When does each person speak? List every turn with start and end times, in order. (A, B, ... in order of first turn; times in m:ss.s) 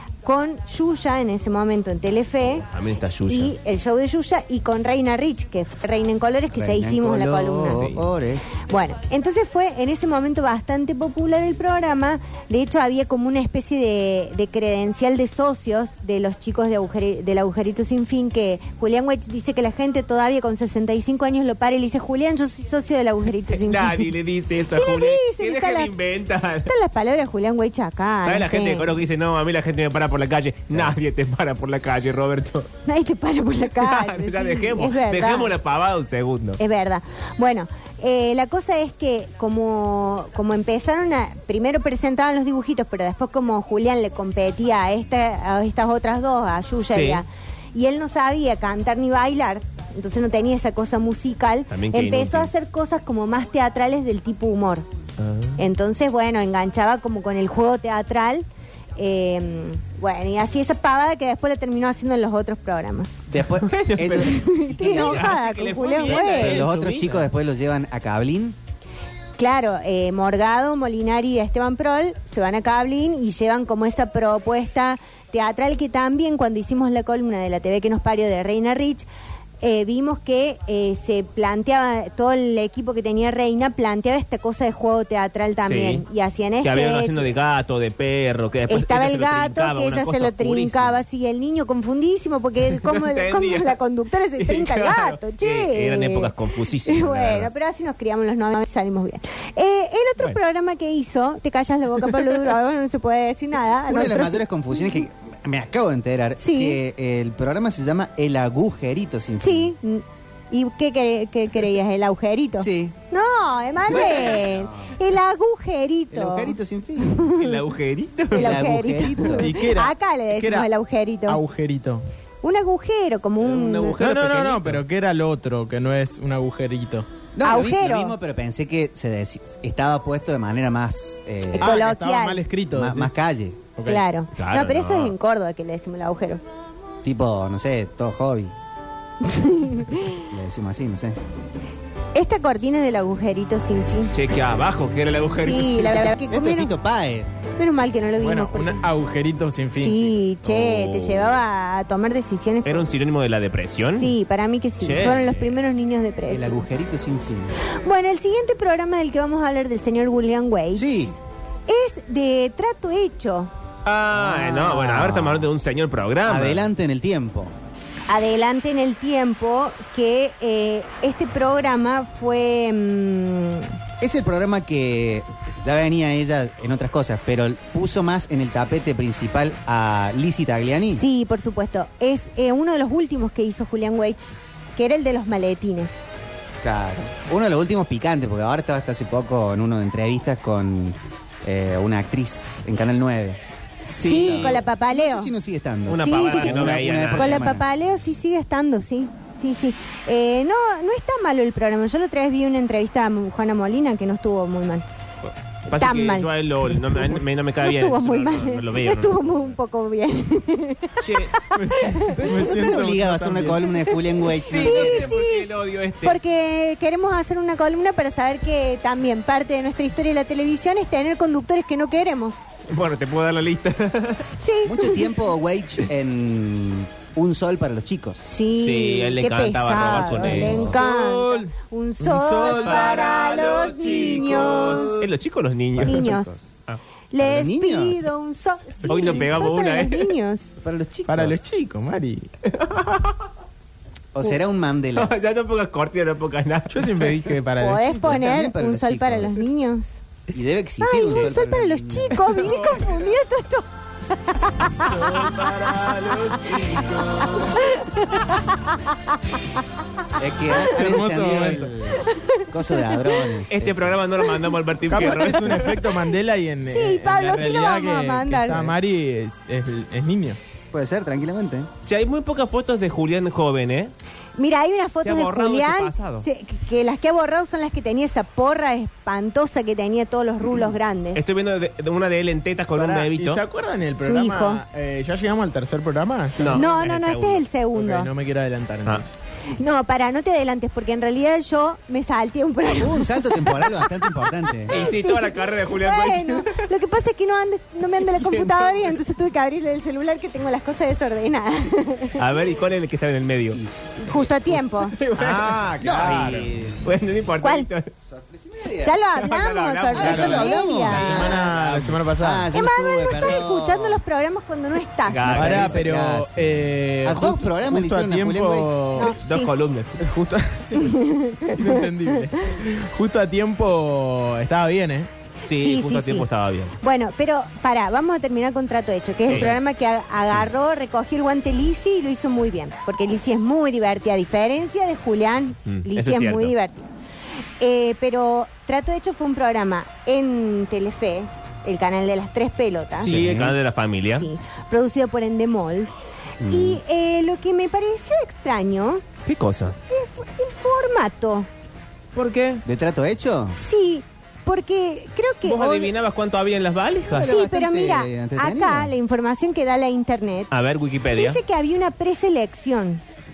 0:00.2-0:02.7 A
0:02.7-0:03.5 B
0:03.3-0:07.8 A
0:06.5-0:08.6 C
0:07.7-0:08.0 B
0:08.7-0:24.1 A
0:23.5-0:26.7 B
0:24.7-0:25.9 A
0:26.7-0:28.9 A
0:28.2-0:32.7 B
0:32.9-0:35.6 A
0:33.8-0:36.6 B
0:36.6-0:54.9 A
0:46.8-0:47.2 B
0:51.7-0:52.5 B
0:55.2-0:55.6 B
0:55.6-0:58.4 A
0:59.0-1:03.1 A
1:03.3-1:05.4 C
1:03.7-1:07.3 B
1:04.0-1:06.7 A
1:06.2-1:08.6 C
1:09.4-1:19.1 A
1:19.6-1:27.3 A
1:25.6-1:26.0 B
1:26.6-1:31.0 B
1:28.7-1:44.4 A
1:32.7-1:33.8 B
1:34.4-1:37.5 B
1:43.9-1:49.7 C
1:46.4-1:46.8 A
1:49.4-1:57.6 A
1:52.6-1:53.0 C
1:53.9-1:55.0 C
1:56.1-1:57.2 C
1:57.4-1:58.6 B
1:58.3-2:01.4 A
1:58.3-1:59.5 C
1:59.4-2:00.7 D
2:01.3-2:02.0 D
2:02.4-2:04.0 A
2:03.4-2:04.8 B
2:04.0-2:07.1 D
2:07.4-2:11.8 C
2:07.4-2:08.2 A
2:11.5-2:12.4 A
2:11.6-2:13.2 D
2:12.7-2:13.6 C
2:13.8-2:14.0 D
2:13.8-2:16.4 A
2:14.4-2:15.2 B
2:17.0-2:18.5 C
2:19.2-2:20.2 A
2:20.3-2:21.2 C
2:22.2-2:24.2 A
2:24.1-2:26.1 B
2:25.4-2:26.7 A
2:26.3-2:27.4 C
2:27.6-2:28.9 A
2:28.2-2:30.2 D
2:29.8-2:32.9 A
2:30.4-2:31.4 B
2:32.6-2:34.1 B
2:34.0-2:36.6 A
2:34.8-2:35.6 B
2:36.3-2:37.6 C
2:37.7-2:41.2 A
2:40.8-2:41.1 C
2:41.7-2:43.5 A
2:43.9-2:46.7 B
2:44.1-2:45.5 C
2:46.2-2:47.5 C
2:48.1-2:53.8 A
2:54.0-3:01.0 C
3:00.9-3:06.0 A
3:06.6-3:13.4 C
3:13.9-3:14.6 B
3:14.0-3:15.3 A
3:14.1-3:17.6 C
3:15.9-3:17.5 B
3:16.0-3:24.8 A
3:25.7-3:29.6 B
3:25.7-3:32.2 A
3:31.0-3:31.6 B
3:31.6-3:33.8 D
3:32.1-3:35.2 C
3:34.5-3:36.2 B
3:34.5-3:35.5 A
3:36.0-3:42.4 A
3:42.7-3:44.3 B
3:44.4-3:45.1 A
3:44.7-3:48.2 C
3:48.2-3:55.0 A
3:48.5-3:50.9 B
3:50.0-3:50.8 C
3:50.8-3:55.0 D
3:52.4-3:56.8 B
3:55.8-3:56.2 D
3:55.8-3:56.4 A
3:57.1-4:00.4 A
3:57.2-3:58.0 C
3:58.8-4:00.1 B
4:00.6-4:01.4 C
4:01.1-4:02.3 D
4:02.5-4:03.2 B
4:04.1-4:05.1 C
4:05.0-4:07.0 B
4:06.7-4:08.1 D
4:07.6-4:10.0 A
4:08.0-4:09.4 C
4:10.3-4:12.4 C
4:10.8-4:13.7 A
4:12.2-4:13.1 B
4:14.2-4:19.2 A
4:14.7-4:17.3 D
4:20.2-4:24.0 C
4:20.7-4:21.8 D
4:22.0-4:23.2 A
4:23.5-4:25.8 B
4:24.9-4:30.4 D
4:25.0-4:25.9 A
4:26.7-4:28.7 A
4:30.7-4:31.7 C
4:31.9-4:33.9 B
4:34.4-4:41.2 A
4:35.0-4:36.3 B
4:41.2-4:43.4 B
4:42.7-4:46.6 D
4:44.0-4:44.6 A
4:46.4-4:47.4 B
4:46.5-4:48.1 A
4:47.7-4:49.2 D
4:49.5-5:02.2 A
4:52.7-4:54.8 C
4:54.7-4:56.7 B
4:58.1-4:58.9 B
5:02.2-5:03.6 B
5:03.5-5:04.3 C
5:04.0-5:05.0 A
5:04.8-5:05.6 B
5:05.2-5:06.5 D
5:05.8-5:06.9 C
5:06.8-5:07.9 B
5:07.4-5:07.7 A
5:08.0-5:09.0 C
5:08.8-5:11.1 A
5:09.2-5:12.0 B
5:09.9-5:11.5 C
5:10.0-5:12.5 D
5:12.2-5:14.0 C
5:12.5-5:15.8 A
5:15.1-5:15.8 B
5:15.2-5:18.9 C
5:15.3-5:19.2 D
5:19.0-5:19.6 A
5:19.0-5:20.0 B
5:20.0-5:25.1 D
5:20.7-5:21.8 A
5:25.5-5:26.8 B
5:25.5-5:26.3 A
5:26.8-5:36.9 A
5:29.3-5:29.6 B
5:35.7-5:36.5 B
5:37.6-5:43.2 A
5:43.0-5:44.3 B
5:43.0-5:43.6 C
5:44.1-5:46.0 A
5:46.4-5:46.8 C
5:46.5-5:49.0 A
5:49.3-5:49.8 B
5:49.9-5:51.5 A
5:52.2-5:52.6 B
5:52.7-5:53.6 C
5:53.5-5:55.9 A
5:55.4-5:57.3 B
5:57.1-5:58.9 C
5:57.2-6:00.5 A
6:00.5-6:01.4 B
6:01.1-6:03.0 A